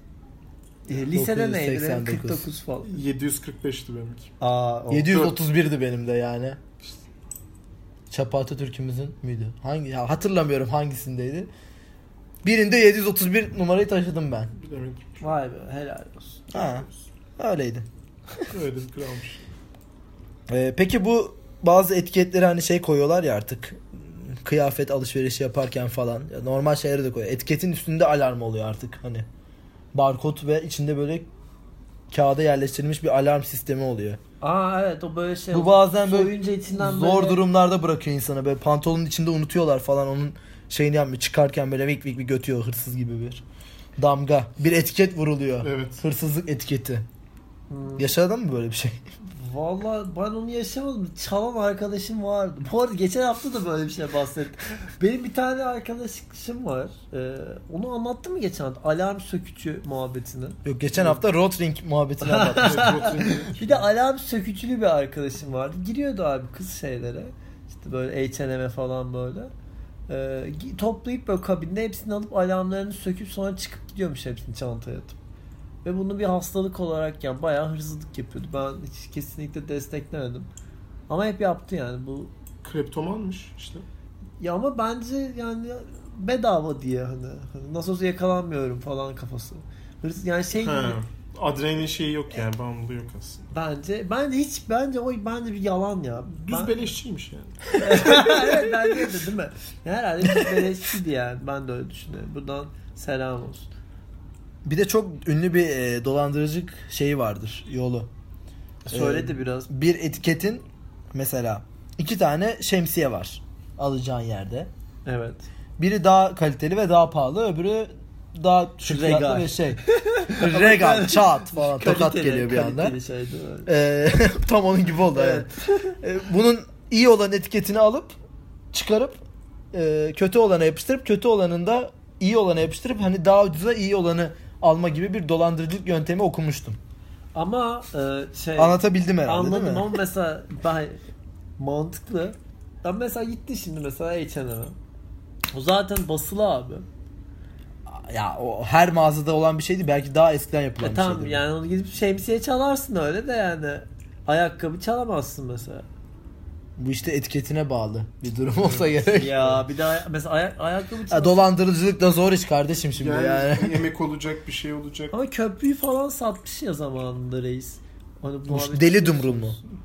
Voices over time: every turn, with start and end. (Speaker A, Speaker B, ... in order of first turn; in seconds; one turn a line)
Speaker A: 0.9-2.9
Speaker B: 1.1-2.5
Speaker C: 2.9-4.3
Speaker A: 4.4-5.2
Speaker B: 4.9-6.6
Speaker B: 8.1-11.5
Speaker B: 12.4-14.5
Speaker C: 14.5-15.2
Speaker A: 15.2-16.5
Speaker B: 16.5-16.9
Speaker B: 17.4-17.9
Speaker C: 18.5-19.5
Speaker B: 20.5-29.2
Speaker B: 29.9-31.3
Speaker B: 32.1-34.2
Speaker A: 34.4-37.4
Speaker B: 35.5-43.4
Speaker B: 44.0-47.0
Speaker C: 45.6-46.0
Speaker A: 47.7-48.1
Speaker B: 48.0-49.0
Speaker A: 49.3-61.1
Speaker B: 60.6-63.0
Speaker A: 62.2-69.5
Speaker C: 62.5-63.8
Speaker A: 70.1-75.2
Speaker A: 75.8-80.5
Speaker A: 81.1-82.3
Speaker C: 82.6-83.8
Speaker A: 84.4-91.0
Speaker C: 90.5-93.5
Speaker A: 93.5-96.8
Speaker C: 96.3-98.7
Speaker A: 97.8-103.7
Speaker B: 100.3-100.6
Speaker B: 104.6-108.1
Speaker A: 108.8-109.7
Speaker B: 108.9-114.7
Speaker A: 115.0-115.5
Speaker B: 115.8-122.9
Speaker A: 118.8-123.7
Speaker B: 123.7-125.5
Speaker A: 125.1-126.0
Speaker B: 126.0-128.2
Speaker B: 128.7-129.2
Speaker B: 129.7-136.8
Speaker A: 137.3-141.0
Speaker B: 138.6-139.9
Speaker A: 141.6-144.7
Speaker A: 145.5-146.8
Speaker B: 147.9-151.4
Speaker A: 150.8-155.8
Speaker B: 156.8-159.5
Speaker C: 158.5-159.6
Speaker A: 159.1-161.5
Speaker B: 161.1-163.8
Speaker C: 163.0-165.1
Speaker A: 165.1-169.6
Speaker B: 168.5-169.6